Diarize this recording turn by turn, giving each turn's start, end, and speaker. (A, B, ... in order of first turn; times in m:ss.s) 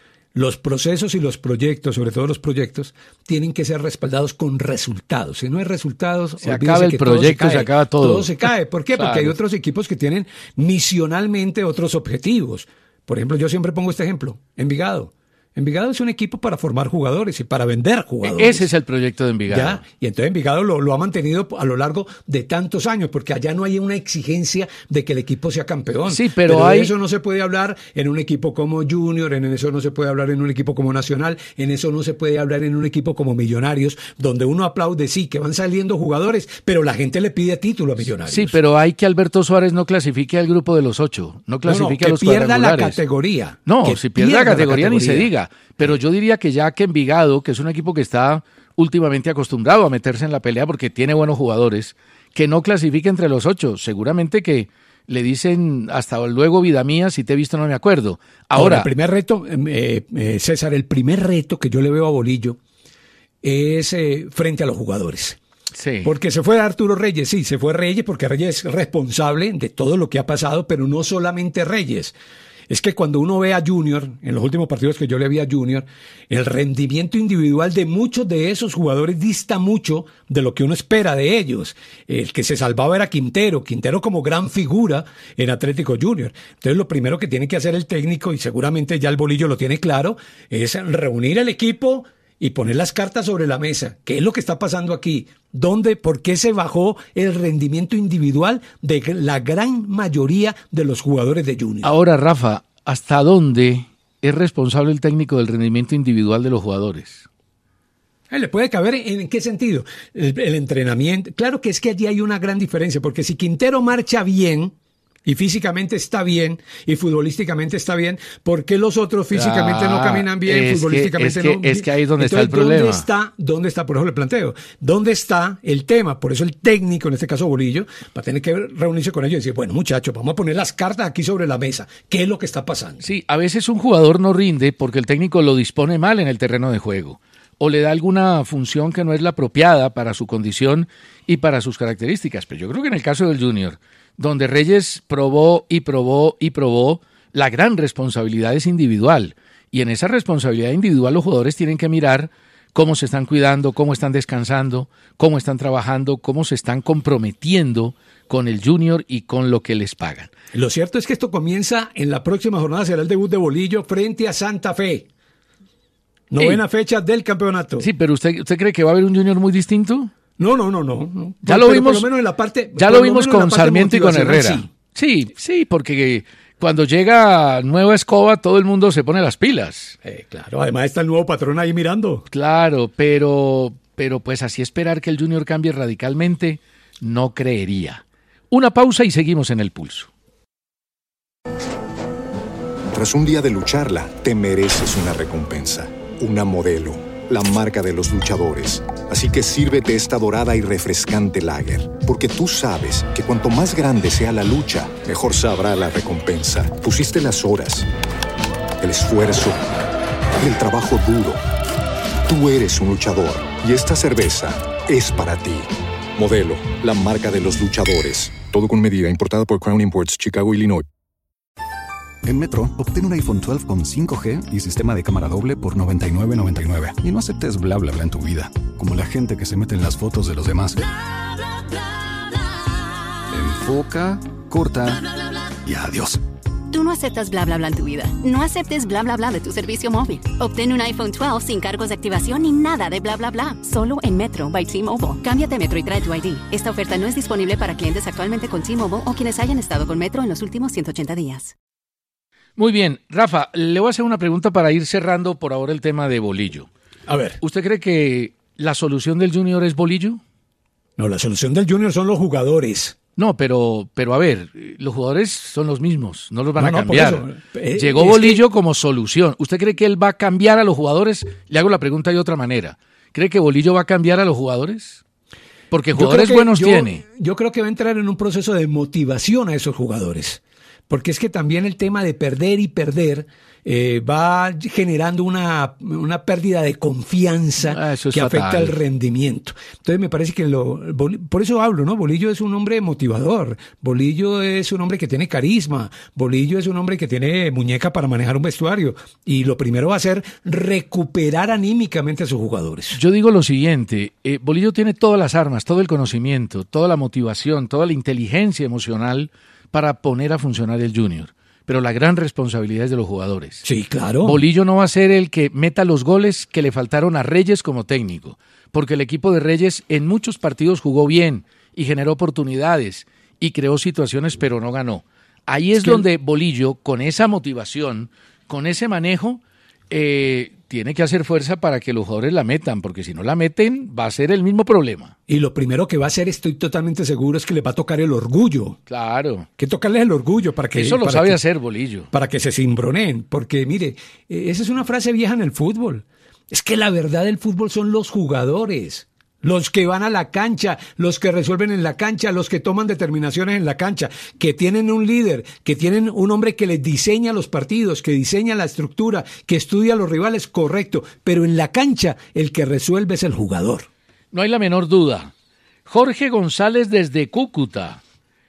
0:00.4-0:18.7 A
0:06.4-0:09.4 B
0:18.2-0:19.8 B
0:19.5-0:38.6 A
0:26.1-0:26.9 B
0:38.3-0:43.0 B
0:41.6-0:45.3 A
0:43.6-0:58.9 B
0:58.5-1:02.6 A
1:03.4-1:05.4 A
1:05.7-1:06.1 B
1:06.0-1:12.2 A
1:12.7-1:41.9 A
1:41.8-1:47.3 B
1:48.3-1:54.7 A
1:55.2-2:13.0 A
1:59.3-2:03.1 B
2:13.0-2:40.3 B
2:40.5-2:45.1 A
2:46.3-2:47.9 A
2:47.8-2:50.1 B
2:50.4-2:54.7 A
2:51.4-2:52.1 B
2:52.8-3:00.0 B
3:00.0-3:02.3 A
3:02.3-3:10.1 B
3:12.9-3:27.9 C
3:28.8-3:29.6 C
3:30.4-3:31.4 C
3:32.3-3:40.9 C
3:42.2-3:50.8 D
3:53.3-3:55.0 D
3:55.6-3:56.2 D
3:56.7-4:11.5 E
4:12.6-4:16.7 B
4:17.1-4:17.4 A
4:17.4-4:20.2 B
4:21.0-4:23.0 A
4:23.2-4:35.0 B
4:26.6-4:28.4 A
4:35.7-4:37.0 B
4:35.9-5:03.0 A
4:47.6-4:48.8 B
5:02.9-5:13.6 B
5:13.6-5:14.4 A
5:14.2-5:35.1 B
5:25.8-5:26.0 A
5:35.3-5:38.8 A
5:38.9-5:39.5 B
5:39.6-5:41.4 A
5:40.7-5:42.1 B
5:42.1-6:03.9 A
6:04.3-6:05.3 B
6:05.9-6:08.0 B